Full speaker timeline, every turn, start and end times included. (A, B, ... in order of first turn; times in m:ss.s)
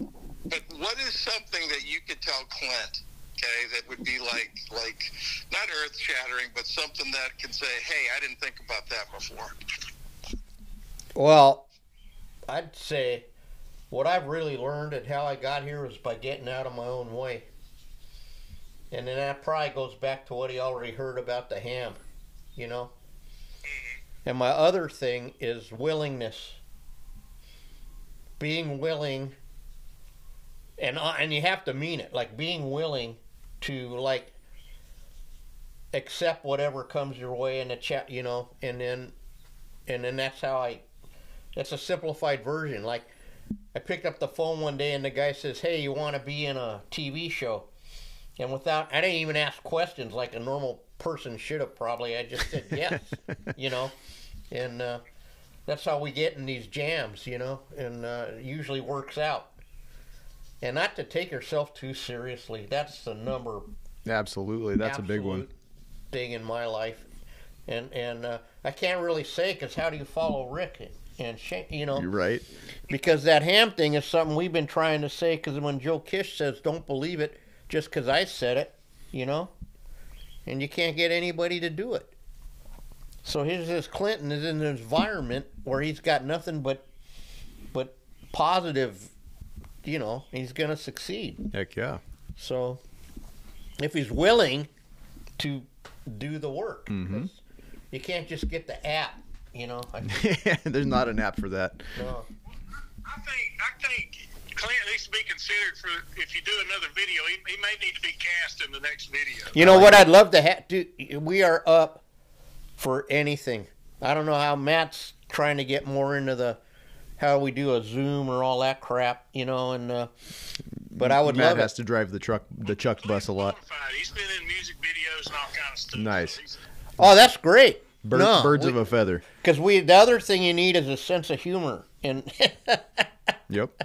0:00.5-0:09.6 A
0:11.1-0:11.7 B
0:12.5-0:13.3 B
0:13.9-0:17.5 B
0:18.9-0:22.0 B
0:22.6-0:22.9 B
0:24.2-0:26.6 B
0:28.4-0:29.4 B
0:30.8-0:34.3 B
0:35.9-0:39.1 B
0:39.9-0:40.8 B
0:41.5-0:43.1 B
0:43.7-0:47.7 B
0:48.4-0:53.9 B
0:54.5-0:55.0 B
0:55.6-0:59.5 B
1:00.6-1:03.7 B
1:04.0-1:05.4 C
1:04.8-1:05.5 B
1:06.1-1:07.1 B
1:07.7-1:12.1 B
1:11.9-1:12.4 C
1:12.9-1:19.5 B
1:20.4-1:22.1 B
1:23.2-1:26.8 B
1:27.7-1:29.1 B
1:29.8-1:31.4 B
1:31.5-1:32.0 C
1:32.4-1:32.8 B
1:33.8-1:34.7 B
1:35.4-1:37.4 B
1:36.9-1:37.3 C
1:37.9-1:40.2 B
1:40.0-1:42.0 C
1:41.9-1:42.3 B
1:43.0-1:49.6 D
1:49.5-1:52.0 B
1:49.6-1:50.1 C
1:52.8-1:56.6 B
1:57.2-2:00.1 B
2:00.9-2:03.6 C
2:01.0-2:01.7 B
2:03.0-2:06.6 D
2:05.9-2:06.4 C
2:07.0-2:08.8 B
2:08.0-2:09.2 C
2:09.4-2:13.1 B
2:13.5-2:13.8 C